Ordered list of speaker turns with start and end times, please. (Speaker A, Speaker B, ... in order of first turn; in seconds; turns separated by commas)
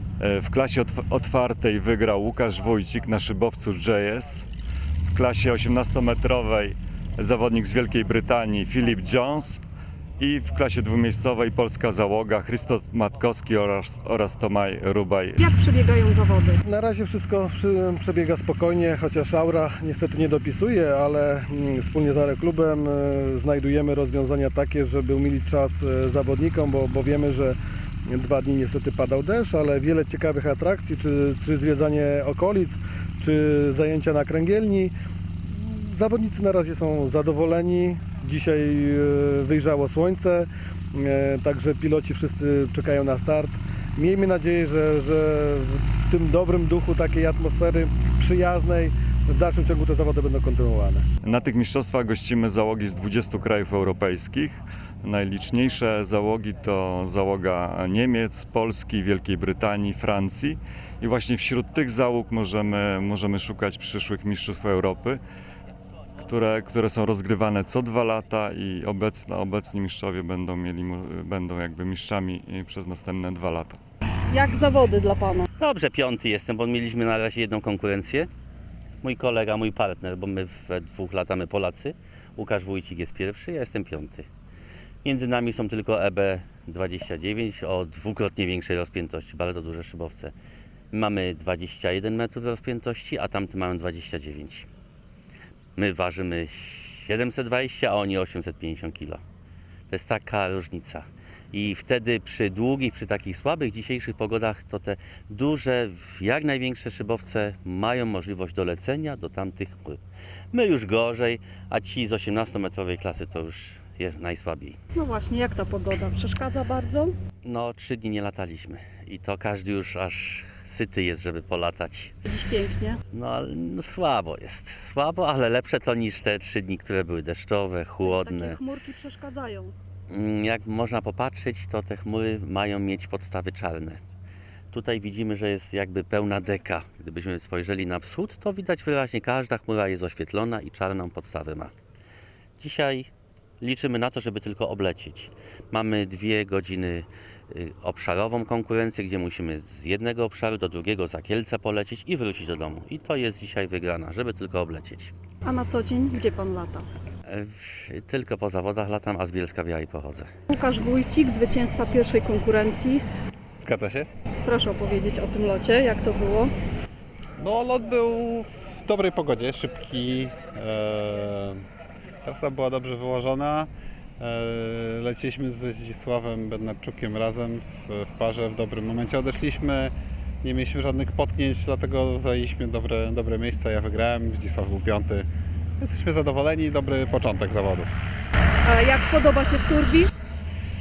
Speaker A: 0.2-4.5, Speaker A: 5.1-9.6, Speaker A: 10.2-15.4, Speaker B: 15.4-16.6, Speaker C: 16.6-34.9, Speaker C: 35.5-51.1, Speaker A: 51.2-65.2, Speaker A: 66.2-73.8, Speaker B: 74.3-75.5, Speaker D: 75.6-78.3, Speaker D: 79.0-84.3, Speaker D: 85.0-90.3, Speaker D: 90.9-94.7, Speaker D: 95.8-99.2, Speaker D: 99.9-110.0, Speaker D: 110.5-114.8, Speaker B: 115.0-117.1, Speaker D: 117.4-122.1, Speaker B: 122.3-123.0, Speaker D: 123.1-128.6, Speaker B: 128.0-129.7, Speaker D: 130.1-134.0, Speaker D: 134.7-141.7, Speaker D: 142.6-143.1, Speaker D: 143.6-155.1, Speaker B: 155.4-156.9, Speaker D: 157.3-160.3, Speaker B: 160.5-163.0, Speaker E: 163.6-164.1, Speaker B: 164.4-166.5, Speaker E: 167.4-171.6, Speaker E: 172.2-188.0, Speaker B: 188.7-190.1